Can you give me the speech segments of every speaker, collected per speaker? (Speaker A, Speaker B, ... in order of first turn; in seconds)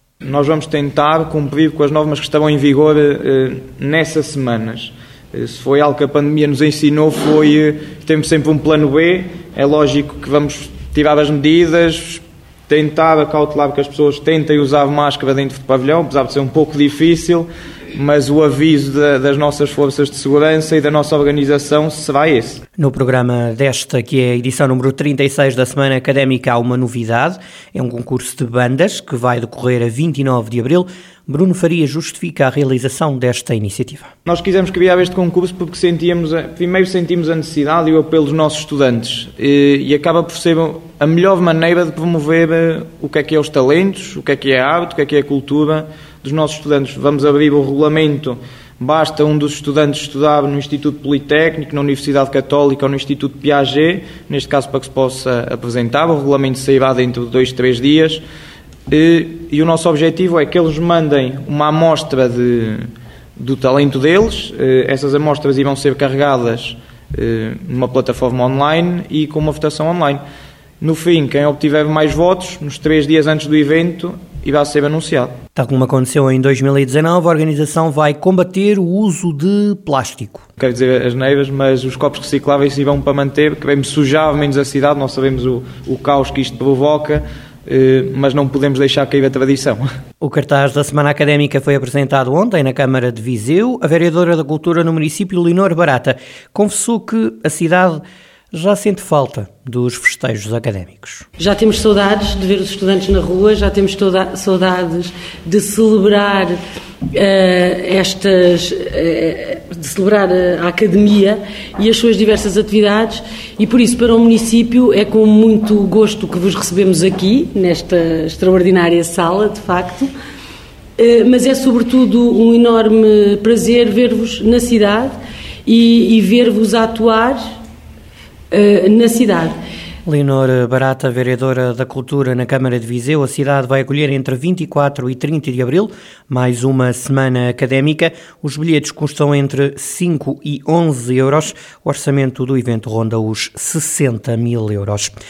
Speaker A: 0.2-22.6, 34.3-58.2, 58.9-70.2, 70.8-75.3, 80.6-89.8
Speaker B: 22.8-34.1, 75.5-80.5, 90.2-101.3, 130.1-145.1
Speaker C: 101.4-106.6, 107.1-120.1, 121.0-125.2, 125.7-127.4, 128.5-129.6